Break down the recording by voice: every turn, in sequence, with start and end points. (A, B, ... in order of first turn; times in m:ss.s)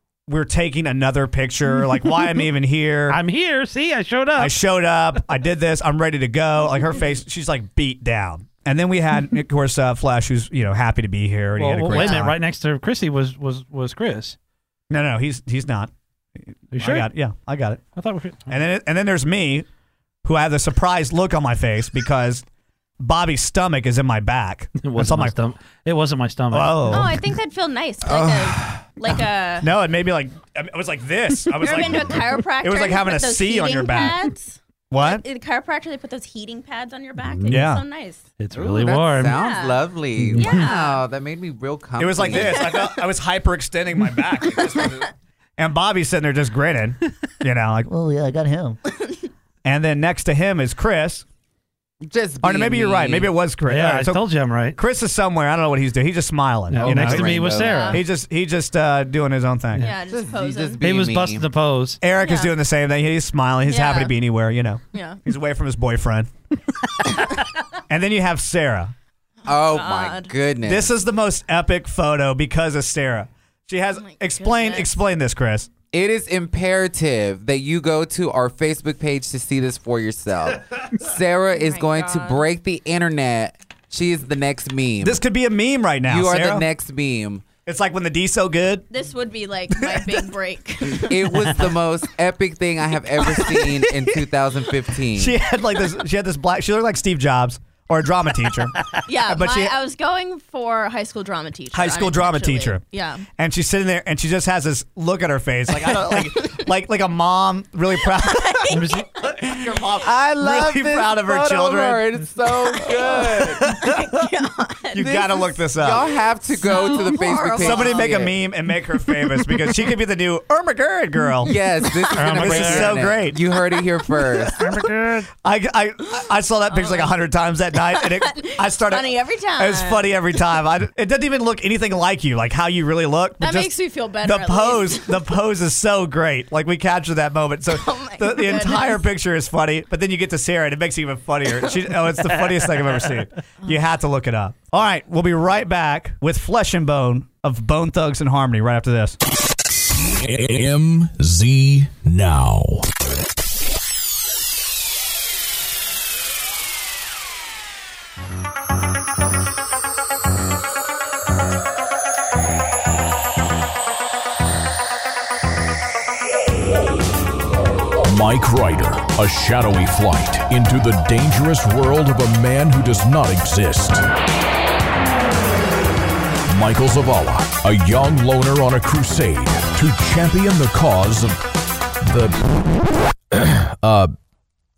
0:00.3-0:03.2 A
0:03.1-0:04.6 B
0:04.4-0:12.4 A
0:11.6-0:14.4 B
0:14.9-0:15.9 A
0:16.7-0:17.1 B
0:16.7-0:17.8 A
0:17.9-0:18.6 B
0:18.5-0:19.6 A
0:20.2-0:22.4 A
0:23.0-0:25.4 A
0:24.8-0:27.2 B
0:26.5-0:27.1 A
0:26.9-0:29.7 C
0:29.6-0:34.2 A
0:31.6-0:38.3 C
0:34.9-0:35.2 A
0:37.2-0:37.6 B
0:37.5-0:37.8 A
0:38.4-0:39.4 B
0:38.5-0:43.0 D
0:39.3-0:39.8 C
0:40.2-0:40.7 B
0:40.3-0:41.0 C
0:42.0-0:48.8 A
0:42.3-0:42.9 C
0:44.6-0:45.0 C
0:49.6-0:51.2 A
0:52.0-0:53.3 D
0:52.4-0:59.9 A
0:53.6-0:54.8 B
0:56.7-0:58.0 B
0:56.8-0:57.9 D
0:57.4-0:58.0 C
0:59.8-1:00.8 C
1:00.1-1:01.5 D
1:00.8-1:02.0 B
1:02.0-1:06.3 A
1:02.2-1:02.5 C
1:03.7-1:04.2 C
1:04.9-1:05.2 C
1:07.9-1:08.9 A
1:09.4-1:10.3 C
1:09.4-1:10.9 D
1:10.6-1:15.7 A
1:14.0-1:15.0 C
1:15.9-1:25.2 D
1:21.5-1:22.4 C
1:25.0-1:26.6 A
1:26.1-1:27.4 D
1:27.6-1:28.9 A
1:28.9-1:31.6 C
1:31.0-1:35.4 D
1:35.1-1:39.7 A
1:39.0-1:43.2 C
1:41.7-1:42.8 A
1:43.4-1:48.7 A
1:46.1-1:46.5 C
1:48.2-1:49.0 C
1:48.7-1:49.1 B
1:49.3-1:52.1 A
1:49.9-1:53.7 D
1:52.9-1:58.1 C
1:53.0-1:54.0 A
1:54.9-1:56.0 A
1:55.7-1:58.4 D
1:57.5-2:01.6 A
2:01.4-2:04.6 D
2:02.1-2:03.4 A
2:02.3-2:03.1 B
2:03.5-2:04.4 C
2:04.6-2:05.3 B
2:05.4-2:13.7 A
2:06.7-2:07.2 C
2:07.7-2:10.2 C
2:13.4-2:15.2 C
2:14.2-2:29.2 A
2:17.7-2:19.0 C
2:30.1-2:32.9 E
2:48.0-2:54.0 E
2:56.5-3:01.4 E
3:02.0-3:04.1 E